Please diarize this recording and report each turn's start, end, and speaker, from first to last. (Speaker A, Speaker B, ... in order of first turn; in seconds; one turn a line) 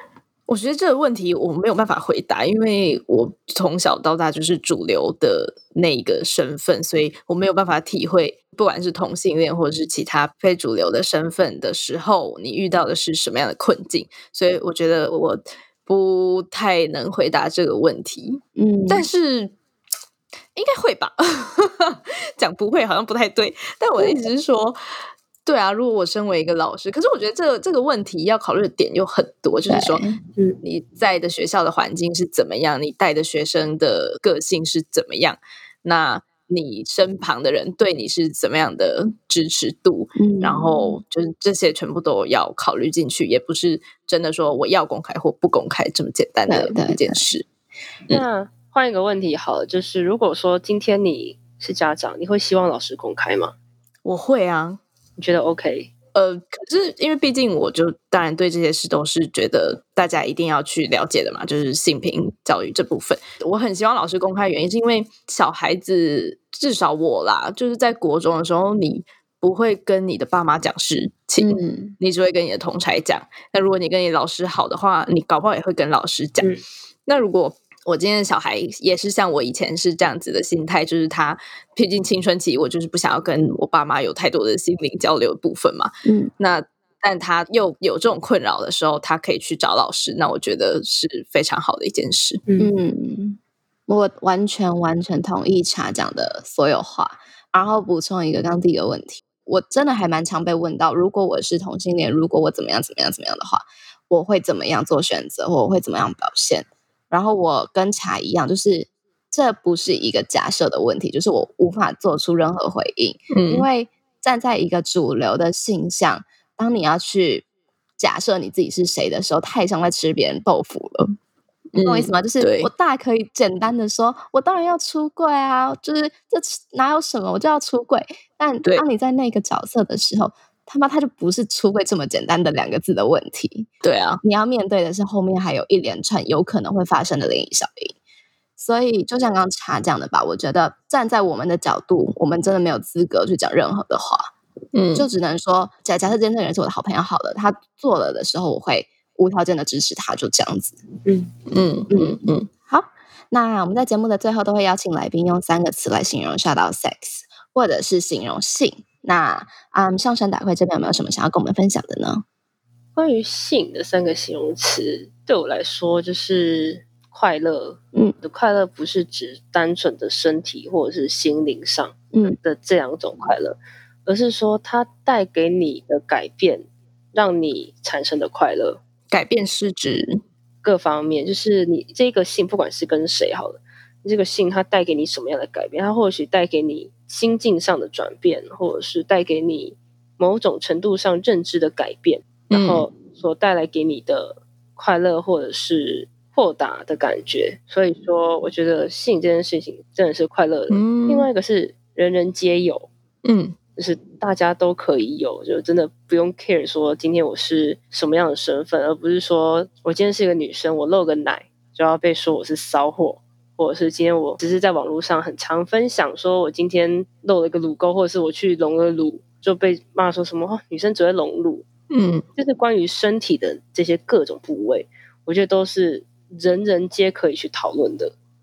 Speaker A: 0.5-19.5
Speaker B: 18.6-19.1
Speaker A: 20.5-24.8
Speaker A: 25.4-47.5
Speaker B: 29.7-30.2
Speaker B: 40.2-41.0
Speaker B: 46.5-47.2
Speaker C: 48.1-53.5
Speaker A: 54.0-54.8
Speaker C: 55.2-55.9
Speaker A: 56.1-76.5
Speaker B: 71.4-72.0
Speaker A: 77.0-92.4
Speaker B: 86.0-86.3
Speaker C: 92.5-92.7
Speaker B: 92.6-117.4
Speaker A: 113.3-113.7
Speaker B: 118.0-121.1
Speaker A: 121.7-122.7
Speaker B: 121.8-133.7
Speaker A: 133.8-134.2
Speaker B: 134.2-137.9
Speaker B: 138.6-144.3
Speaker A: 144.7-145.1
Speaker B: 144.9-150.8
Speaker C: 151.1-151.3
Speaker A: 151.5-152.5
Speaker B: 151.9-162.2
Speaker C: 162.9-178.8
Speaker A: 179.1-180.2
Speaker C: 180.6-202.9
Speaker A: 192.5-192.8
Speaker A: 200.7-201.3
Speaker A: 203.2-203.6
Speaker C: 203.8-221.6
Speaker A: 221.9-222.2
Speaker C: 222.4-228.1